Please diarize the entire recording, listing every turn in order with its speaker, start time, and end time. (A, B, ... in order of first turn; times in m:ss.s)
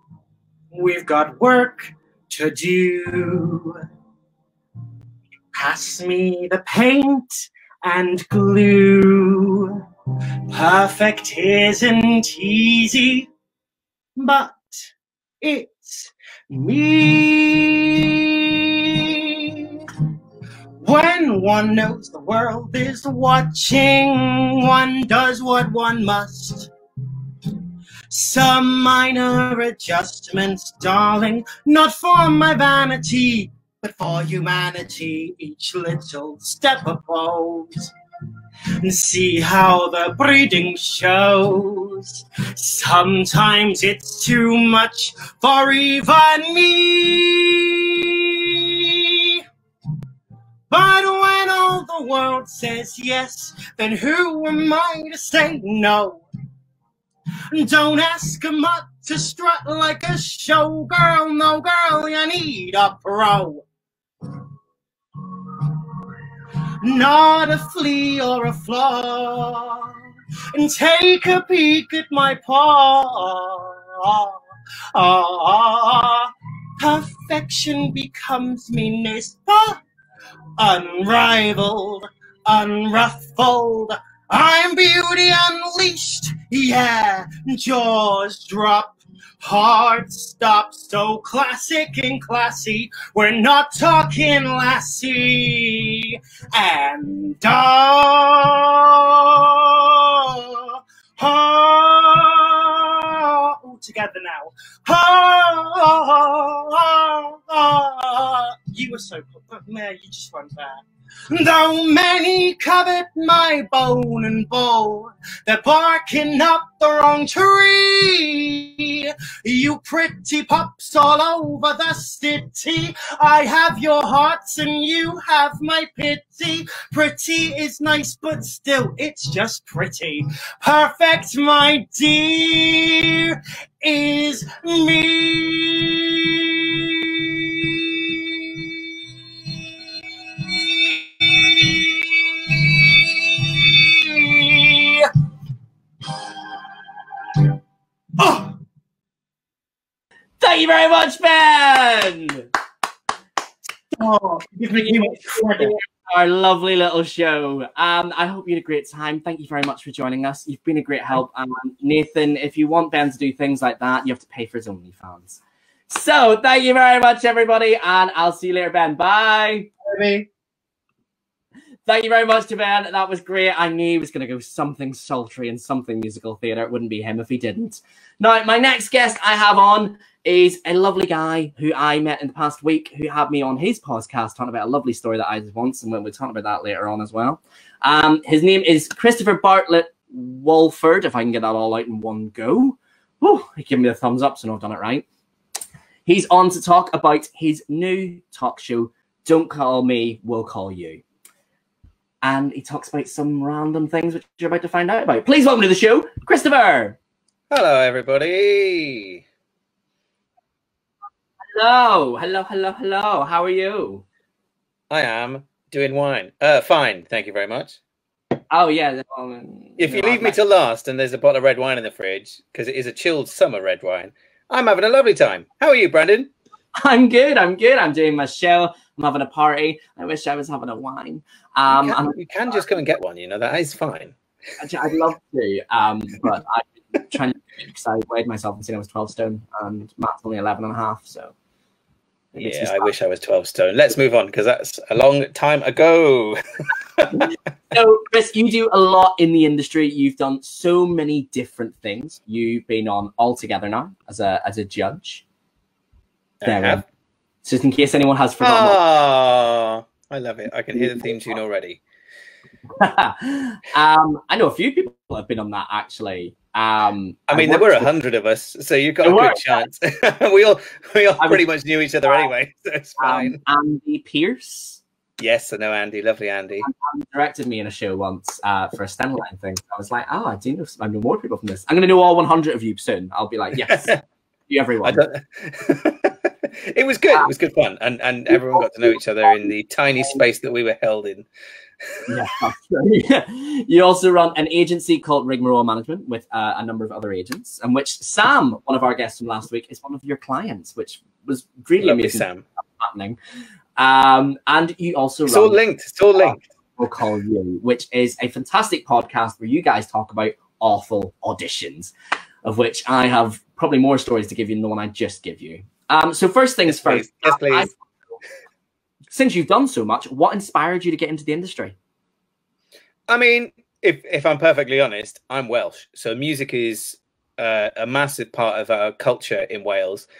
0:00.7-0:03.8 A
0:05.5-0:09.8 A
0:10.5-0:13.3 A
0:14.2-0:14.9 A
0:15.4-0:19.7 A
0:20.8-0:26.7 A
0:28.1-0:37.9 A
0:38.8-0:49.4 A
0:50.7-0:56.2 A
0:57.5-1:03.6 A
1:05.2-1:05.8 A
1:06.8-1:09.9 A
1:10.5-1:14.4 A
1:14.9-1:19.8 A
1:20.6-2:18.8 A
2:20.3-2:25.1 A
2:28.2-2:28.5 A
2:30.4-2:32.5 B
2:34.0-2:35.7 A
2:34.7-2:49.7 B
2:49.8-2:50.3 A
2:51.8-3:15.0 B
3:16.0-3:21.0 B
3:22.2-3:27.0 B
3:27.7-3:28.4 C
3:31.5-3:34.0 B
3:35.1-3:37.6 C
3:38.5-3:40.4 B
3:40.5-3:44.0 C
3:44.6-3:46.2 C
3:46.8-3:52.2 B
3:52.4-3:54.1 C
3:54.6-4:01.3 B
4:02.4-4:02.9 B
4:02.8-4:06.3 C
4:07.2-4:15.2 B
4:16.4-4:16.8 B
4:17.4-4:18.8 B
4:18.7-4:21.8 C
4:22.8-4:27.9 B
4:27.3-4:33.3 C
4:29.0-4:29.7 B
4:31.2-4:31.4 B
4:33.0-4:34.8 B
4:35.2-4:36.6 C
4:36.6-4:44.0 B
4:44.5-4:45.0 B
4:46.8-4:51.2 C
4:48.3-4:48.9 B
4:52.1-5:03.2 B
5:01.8-5:02.4 C
5:03.8-5:05.6 B
5:05.3-5:06.3 C
5:06.1-5:11.9 B
5:12.4-5:17.8 B
5:16.7-5:17.6 C
5:19.1-5:21.7 B
5:23.1-5:30.0 C